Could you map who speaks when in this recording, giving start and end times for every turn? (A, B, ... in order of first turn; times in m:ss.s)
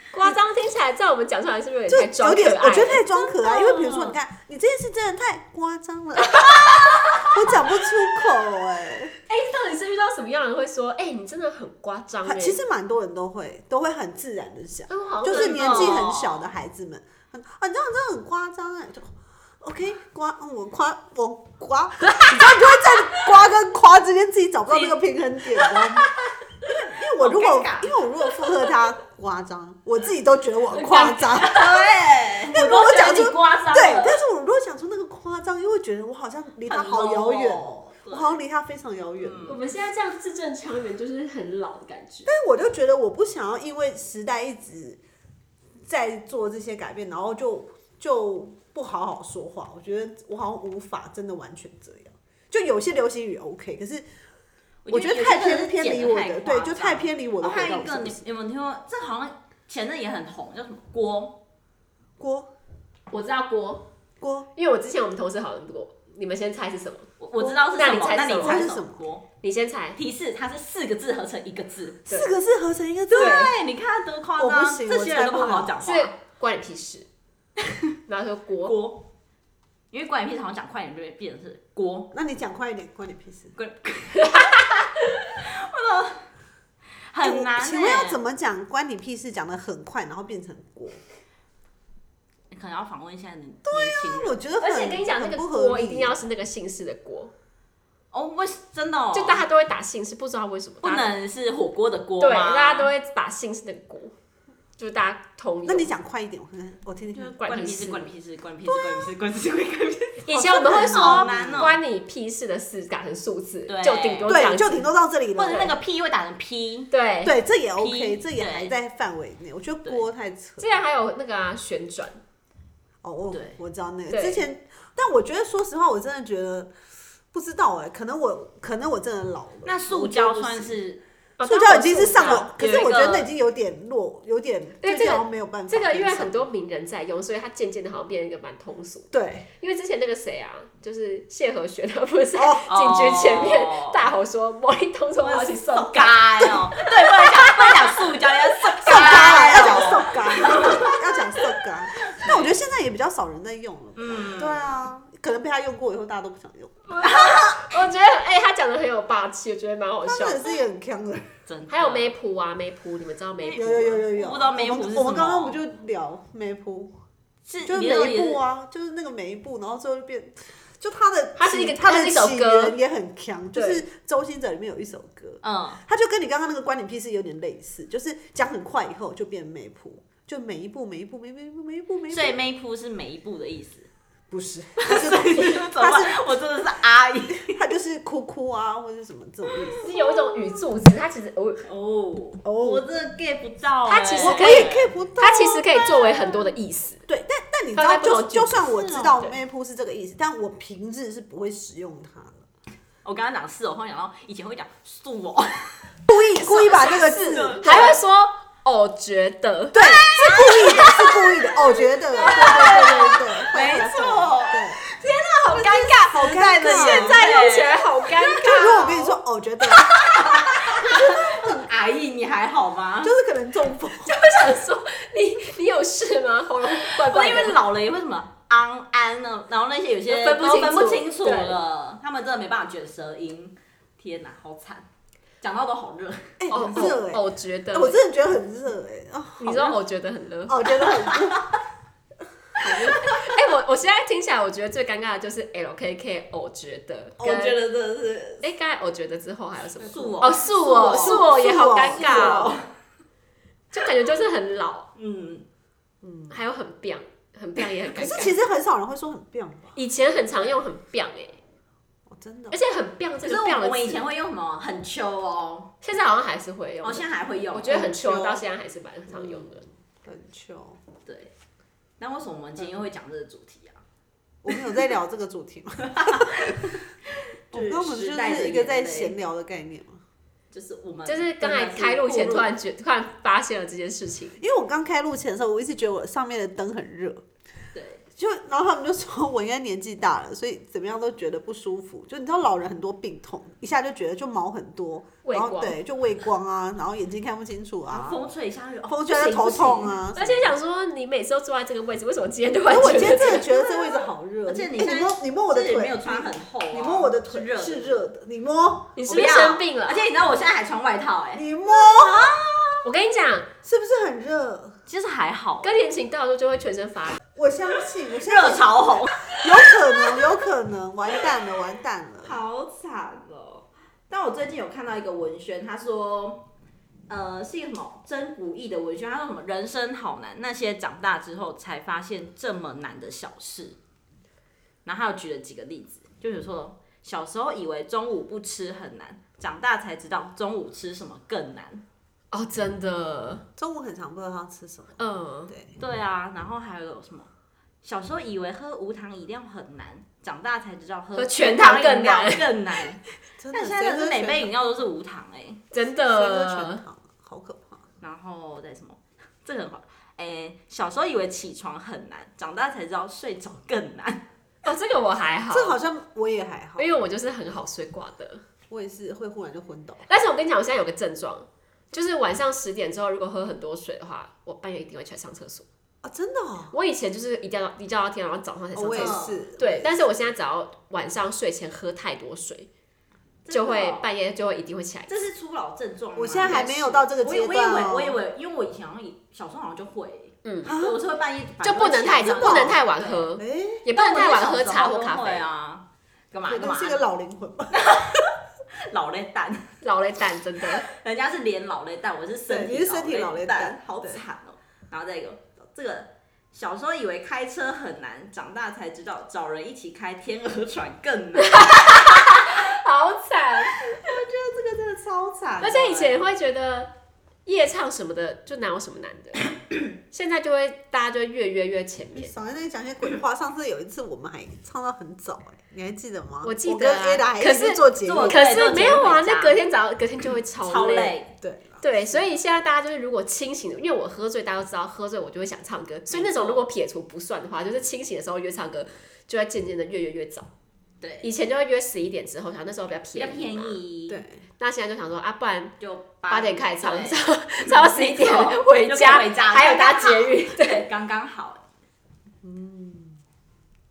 0:00.1-0:03.1 A
0:01.9-0:09.2 B
0:03.1-0:04.2 C
0:06.6-0:07.4 C
0:09.3-0:12.6 A
0:12.2-0:26.1 B
0:14.9-0:16.1 A
0:15.2-0:16.5 C
0:22.0-0:22.4 A
0:24.7-0:25.0 C
0:25.6-0:26.0 C
0:26.7-0:28.0 C
0:26.7-0:31.8 B
0:30.7-0:31.7 A
0:31.3-0:34.2 C
0:32.5-0:39.6 B
0:32.6-0:34.0 A
0:36.7-0:38.4 C
0:39.2-0:39.6 C
0:39.5-0:42.3 A
0:42.3-0:45.0 B
0:45.8-0:54.1 B
0:54.8-1:01.4 C
0:54.9-0:58.2 B
1:02.2-1:02.5 B
1:03.1-1:03.9 A
1:04.2-1:04.5 B
1:04.6-1:08.7 A
1:07.2-1:09.2 C
1:08.4-1:09.0 B
1:09.4-1:10.0 A
1:10.0-1:12.0 C
1:12.1-1:13.5 B
1:13.1-1:16.1 C
1:13.2-1:13.5 A
1:14.4-1:15.8 B
1:15.8-1:17.1 A
1:18.1-1:18.8 A
1:18.6-1:19.1 C
1:19.9-1:22.1 C
1:22.1-1:23.6 B
1:23.6-1:26.2 C
1:27.1-1:28.2 C
1:27.2-1:31.0 B
1:32.5-1:34.4 C
1:33.7-1:36.2 B
1:34.6-1:37.3 A
1:38.1-1:39.4 C
1:39.1-1:41.1 A
1:40.8-1:42.9 C
1:42.2-1:44.1 A
1:44.8-1:45.9 A
1:45.6-1:47.4 B
1:47.2-1:51.8 C
1:47.4-1:48.1 A
1:48.6-1:49.1 B
1:50.3-1:54.9 A
1:50.4-1:51.8 B
1:53.7-1:54.4 C
1:54.3-1:55.8 B
1:55.4-1:56.9 C
1:56.9-1:57.4 A
1:57.2-2:00.8 B
1:57.8-1:58.7 C
2:00.6-2:02.2 A
2:03.0-2:06.7 B
2:03.3-2:03.6 C
2:04.1-2:04.4 A
2:07.3-2:10.8 B
2:09.6-2:11.0 C
2:11.4-2:12.9 A
2:11.4-2:16.5 B
2:12.2-2:13.3 C
2:14.8-2:28.1 A
2:19.1-2:19.5 B
2:22.4-2:22.6 B
2:22.7-2:24.1 C
2:25.2-2:31.0 C
2:28.7-2:30.8 A
2:28.8-2:36.8 B
2:32.0-2:32.6 C
2:34.0-2:34.8 C
2:36.9-2:40.5 A
2:37.0-2:37.7 C
2:40.0-2:41.3 B
2:41.5-2:42.1 C
2:41.7-2:44.0 A
2:43.4-2:45.6 C
2:43.6-2:46.9 B
2:47.5-2:48.4 C
2:47.6-3:02.4 B
2:51.4-2:52.8 A
2:53.5-2:53.8 A
2:55.4-2:55.8 C
3:02.1-3:03.9 C
3:04.3-3:06.2 B
3:04.8-3:07.6 C
3:07.5-3:09.8 B
3:09.5-3:10.6 C
3:09.8-3:11.6 A
3:11.6-3:14.9 C
3:12.4-3:12.9 B
3:13.8-3:17.0 A
3:14.2-3:15.7 B
3:17.1-3:22.4 B
3:17.8-3:19.3 A
3:18.8-3:19.2 C
3:23.0-3:25.9 C
3:26.1-3:27.8 B
3:26.6-3:28.0 C
3:26.6-3:31.3 A
3:29.7-3:34.8 B
3:29.7-3:31.3 C
3:32.1-3:34.8 C
3:32.2-3:33.5 A
3:34.9-3:39.2 A
3:35.5-3:37.8 C
3:36.1-3:37.2 B
3:38.2-3:41.7 B
3:39.8-3:43.2 C
3:43.0-3:44.2 B
3:44.0-3:47.6 A
3:46.8-3:54.8 C
3:50.1-3:51.6 A
3:55.4-3:56.9 C
3:56.4-3:59.8 B
3:56.5-3:58.0 A
3:59.4-4:00.8 A
4:00.5-4:01.5 B
4:00.8-4:01.4 C
4:02.6-4:03.0 B
4:02.6-4:03.1 C
4:02.9-4:07.6 A
4:07.2-4:08.5 C
4:08.4-4:12.6 A
4:09.8-4:11.3 C
4:09.8-4:12.6 B
4:12.0-4:12.7 C
4:13.7-4:14.9 A
4:15.0-4:15.5 C
4:16.0-4:16.4 B
4:16.3-4:18.4 A
4:18.0-4:19.8 B
4:19.8-4:21.4 A
4:22.1-4:22.6 B
4:22.5-4:24.0 A
4:23.2-4:25.7 C
4:25.8-4:29.6 A
4:26.8-4:28.2 C
4:29.1-4:29.5 B
4:30.0-4:30.8 B
4:31.1-4:31.3 C
4:32.0-4:33.8 C
4:34.4-4:36.8 B
4:35.9-4:36.8 C
4:37.5-4:39.2 C
4:37.5-4:40.0 B
4:40.5-4:42.5 C
4:41.1-4:44.4 A
4:44.4-4:47.2 B
4:47.7-4:48.0 C
4:48.2-4:58.2 B
4:55.2-4:55.8 A
4:57.9-5:00.2 C
4:58.8-5:00.4 B
5:00.2-5:03.6 A
5:02.7-5:09.0 B
5:04.5-5:08.0 C
5:09.0-5:10.0 A
5:09.1-5:12.8 C
5:11.3-5:12.4 B
5:12.8-5:13.5 A
5:13.6-5:14.8 B
5:14.9-5:15.7 C
5:15.6-5:17.2 A
5:17.4-5:22.4 B
5:18.1-5:20.2 C
5:22.2-5:26.5 C
5:27.1-5:33.8 C
5:34.8-5:41.8 C
5:42.3-5:43.4 A
5:43.6-5:45.8 B
5:45.0-5:45.5 A
5:45.8-5:47.3 C
5:47.8-5:53.0 C
5:51.2-5:52.5 A
5:53.4-5:54.5 B
5:53.5-5:55.6 C
5:55.7-5:56.8 A
5:56.0-5:57.9 B
5:58.0-6:04.2 C
6:04.6-6:05.8 A
6:05.5-6:06.9 B
6:06.8-6:08.4 A
6:08.7-6:10.0 B
6:10.1-6:15.7 A
6:16.0-6:16.7 B
6:16.7-6:22.7 A
6:18.8-6:20.1 B
6:18.9-6:19.4 C
6:23.4-6:24.1 C
6:23.5-6:25.1 A
6:25.1-6:33.3 C
6:26.2-6:28.2 B
6:26.4-6:27.0 A
6:30.4-6:30.8 A
6:30.6-6:31.0 B
6:31.6-6:35.5 A
6:32.2-6:32.8 B
6:33.4-6:33.8 B
6:33.9-6:37.0 C
6:36.5-6:37.9 B
6:37.7-6:39.8 C
6:39.8-6:40.8 A
6:40.8-6:52.6 C
6:42.5-6:44.2 B
6:51.4-6:53.8 A
6:53.7-6:56.2 C
6:55.6-6:56.9 A
6:57.5-6:59.5 A
7:00.1-7:02.3 A
7:02.2-7:08.5 B
7:06.4-7:11.2 A
7:08.0-7:09.6 C
7:10.6-7:11.3 C
7:11.4-7:12.2 B
7:11.8-7:20.5 A
7:16.1-7:16.7 C
7:21.0-7:21.3 C
7:21.2-7:23.8 A
7:23.2-7:24.2 C
7:24.1-7:24.4 B
7:24.6-7:25.7 A
7:25.8-7:31.6 C
7:26.3-7:30.9 A
7:32.4-7:33.2 B